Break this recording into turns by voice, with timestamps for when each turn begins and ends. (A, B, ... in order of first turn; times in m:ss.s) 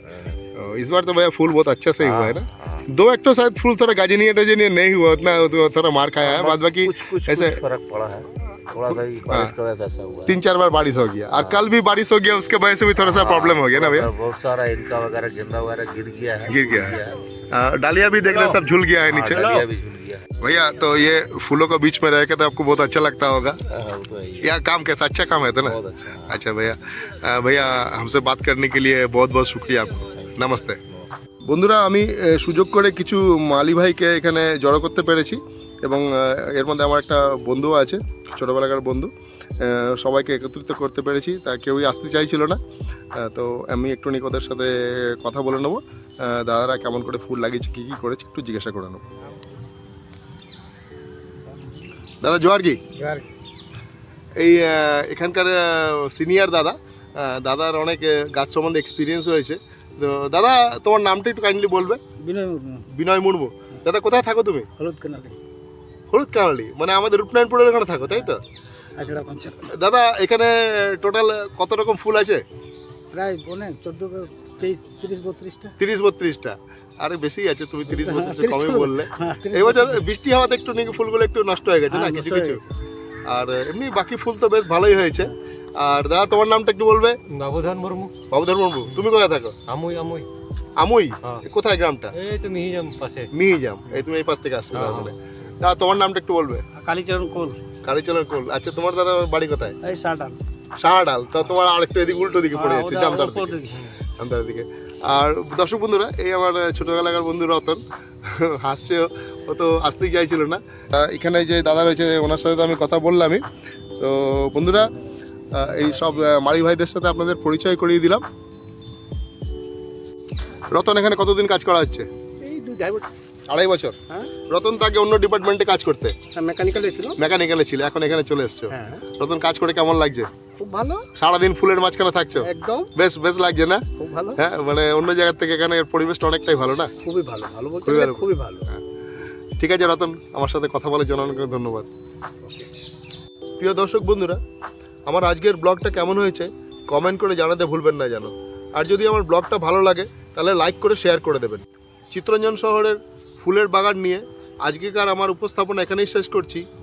0:00.6-0:07.6 A
0:02.0-0:02.9 B
0:06.2-0:10.4 B
0:09.3-0:09.5 A
0:10.3-0:14.1 A
0:11.4-0:11.6 B
0:13.0-0:17.3 B
0:16.5-0:17.0 A
0:17.5-0:19.6 A
0:19.1-0:20.3 B
0:20.4-0:23.6 A
0:23.7-0:24.5 B
0:24.4-0:30.8 A
0:25.6-0:26.4 B
0:30.1-0:30.4 B
0:31.5-0:42.6 A
0:43.2-0:49.0 A
0:52.2-0:52.8 A
0:53.0-0:53.3 C
0:54.4-1:02.0 A
1:02.2-1:02.8 C
1:02.9-1:04.7 A
1:04.8-1:05.4 C
1:06.1-1:08.4 A
1:09.0-1:09.7 C
1:09.7-1:12.4 A
1:13.1-1:15.8 C
1:15.8-1:22.6 A
1:18.0-1:20.0 C
1:21.9-1:22.6 C
1:23.3-1:27.2 A
1:27.3-1:28.1 D
1:28.3-1:29.6 A
1:29.7-1:30.3 D
1:30.8-1:32.1 A
1:32.2-1:33.3 D
1:33.3-1:36.6 A
1:34.7-1:35.1 D
1:36.8-1:37.6 C
1:37.8-1:39.8 A
1:39.8-1:40.4 C
1:40.8-1:43.6 A
1:42.5-1:43.8 C
1:44.2-1:53.4 A
1:54.0-1:54.9 A
1:55.5-1:58.2 A
2:00.7-2:02.1 A
2:02.4-2:03.1 C
2:03.5-2:04.0 A
2:04.5-2:06.2 A
2:06.3-2:07.2 C
2:07.2-2:10.3 A
2:08.7-2:09.0 C
2:10.6-2:11.1 C
2:11.2-2:13.8 A
2:12.4-2:12.9 C
2:14.0-2:14.4 C
2:14.4-2:16.9 A
2:17.0-2:18.8 C
2:17.8-2:18.3 A
2:19.6-2:21.9 A
2:23.6-2:24.4 A
2:25.1-2:36.7 A